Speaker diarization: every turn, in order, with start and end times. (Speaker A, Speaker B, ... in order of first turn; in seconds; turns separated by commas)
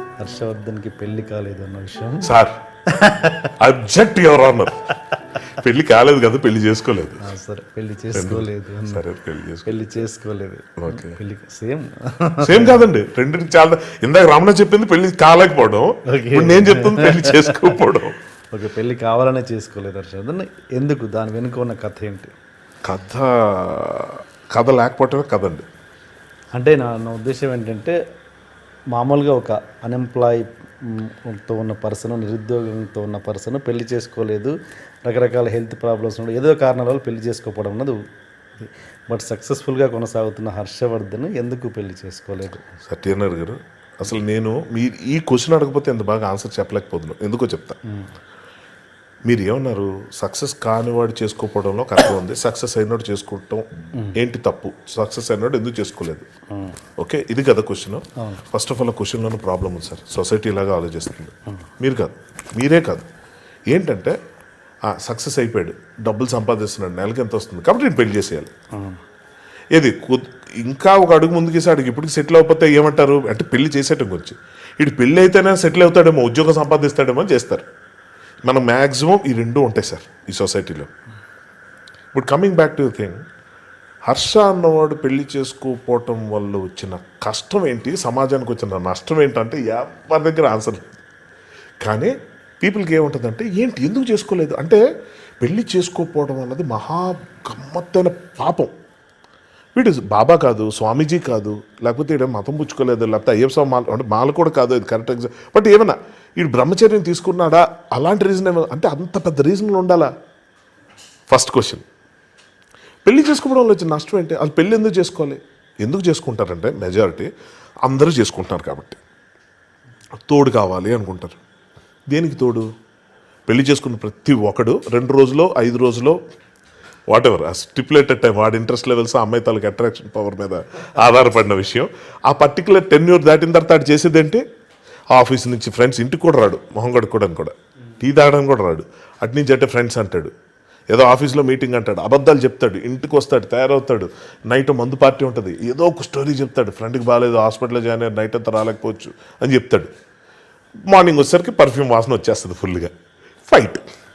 Speaker A: 0.2-2.3, Speaker B: 2.2-2.5, Speaker A: 3.0-3.4, Speaker B: 3.6-4.9, Speaker B: 5.6-7.2, Speaker A: 7.2-9.0, Speaker B: 8.1-9.8, Speaker A: 9.7-12.8, Speaker B: 10.8-11.2, Speaker B: 12.4-18.1, Speaker A: 16.1-17.8, Speaker A: 18.5-22.3, Speaker B: 22.9-25.6, Speaker A: 26.5-27.9, Speaker A: 28.9-38.0, Speaker A: 38.6-42.6, Speaker B: 42.9-47.8, Speaker B: 49.3-56.3, Speaker B: 57.0-63.0, Speaker B: 63.7-64.1, Speaker B: 64.9-68.5, Speaker B: 69.7-77.6, Speaker B: 78.4-80.9, Speaker B: 82.1-83.2, Speaker B: 84.1-90.9, Speaker B: 91.8-94.8, Speaker B: 95.4-98.7, Speaker B: 99.8-110.1, Speaker B: 111.3-111.8, Speaker B: 113.0-117.3, Speaker B: 117.8-119.0, Speaker B: 120.3-121.4, Speaker B: 122.1-122.7, Speaker B: 123.5-126.2, Speaker B: 127.1-134.4, Speaker B: 135.1-140.3, Speaker B: 140.9-149.9, Speaker B: 150.9-152.9, Speaker B: 153.5-153.8